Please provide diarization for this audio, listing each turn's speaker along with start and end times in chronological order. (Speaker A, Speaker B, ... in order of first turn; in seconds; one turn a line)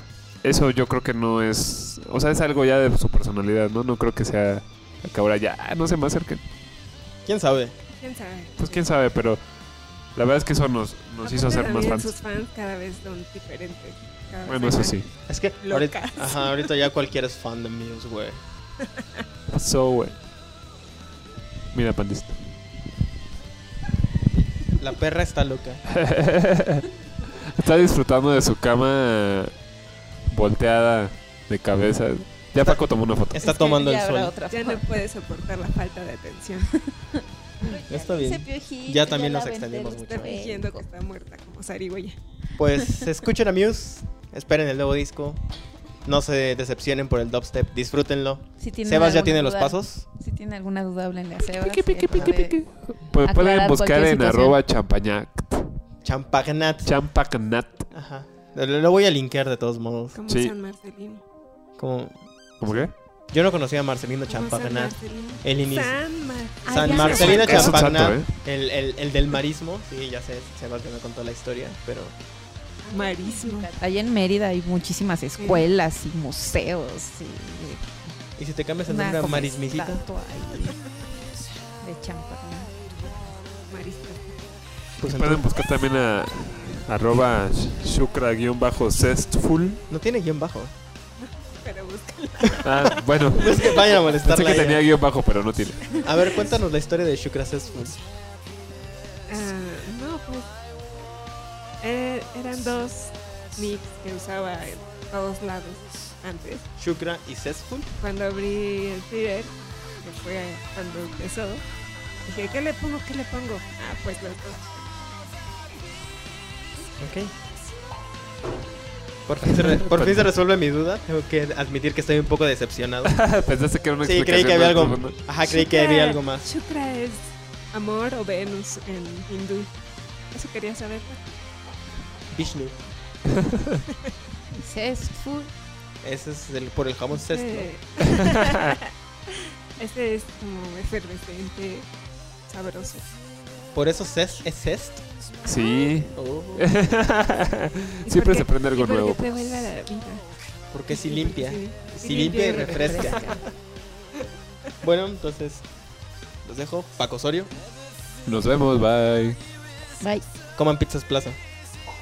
Speaker A: 0.4-6.4
Speaker B: 7.3-7.8
Speaker C: 8.0-8.9
Speaker A: 8.6-9.4
Speaker A: 10.2-12.1
Speaker C: 11.2-16.7
Speaker A: 14.4-15.1
Speaker B: 15.3-18.4
Speaker C: 18.8-19.2
Speaker A: 19.5-20.2
Speaker A: 21.7-22.6
Speaker B: 24.3-25.8
Speaker A: 25.9-29.5
Speaker A: 30.3-33.4
Speaker B: 32.6-34.3
Speaker D: 33.4-34.9
Speaker C: 34.5-36.8
Speaker D: 37.6-40.9
Speaker B: 37.9-40.4
Speaker C: 40.0-42.2
Speaker B: 42.6-45.4
Speaker B: 46.0-50.0
Speaker D: 48.6-52.6
Speaker A: 51.5-55.8
Speaker D: 53.2-54.6
Speaker B: 56.0-56.9
Speaker A: 56.9-57.9
Speaker B: 57.9-60.2
Speaker C: 60.1-61.2
Speaker A: 60.3-60.5
Speaker B: 61.8-66.0
Speaker A: 62.6-62.9
Speaker C: 64.3-67.8
Speaker D: 66.6-67.8
Speaker B: 66.7-72.2
Speaker A: 67.0-68.3
Speaker D: 72.9-77.9
Speaker C: 72.9-73.7
Speaker C: 75.4-75.7
Speaker B: 78.4-80.0
Speaker D: 78.9-80.8
Speaker D: 81.8-82.7
Speaker C: 83.7-84.5
Speaker B: 85.0-85.5
Speaker A: 85.0-89.8
Speaker B: 89.9-90.7
Speaker C: 91.2-94.1
Speaker A: 92.6-96.0
Speaker B: 92.9-94.9
Speaker C: 95.9-96.5
Speaker B: 96.0-98.0
Speaker C: 99.3-100.5
Speaker C: 101.8-106.7
Speaker B: 106.8-107.9
Speaker C: 108.0-111.7
Speaker C: 112.2-114.7
Speaker B: 117.0-117.3
Speaker B: 119.3-123.2
Speaker A: 119.5-120.3
Speaker A: 123.1-125.2
Speaker B: 124.0-126.5
Speaker C: 125.4-129.7
Speaker C: 130.3-131.3
Speaker B: 132.3-132.8
Speaker A: 133.3-133.8
Speaker D: 134.6-135.5
Speaker B: 136.0-137.7
Speaker C: 137.1-141.9
Speaker C: 142.5-143.1
Speaker B: 143.8-145.0
Speaker A: 145.4-149.2
Speaker B: 146.2-146.7
Speaker C: 148.1-150.3
Speaker B: 150.7-153.4
Speaker C: 150.9-153.4
Speaker D: 152.7-153.4
Speaker B: 154.8-155.7
Speaker B: 156.4-157.5
Speaker A: 158.3-159.4
Speaker B: 160.6-161.4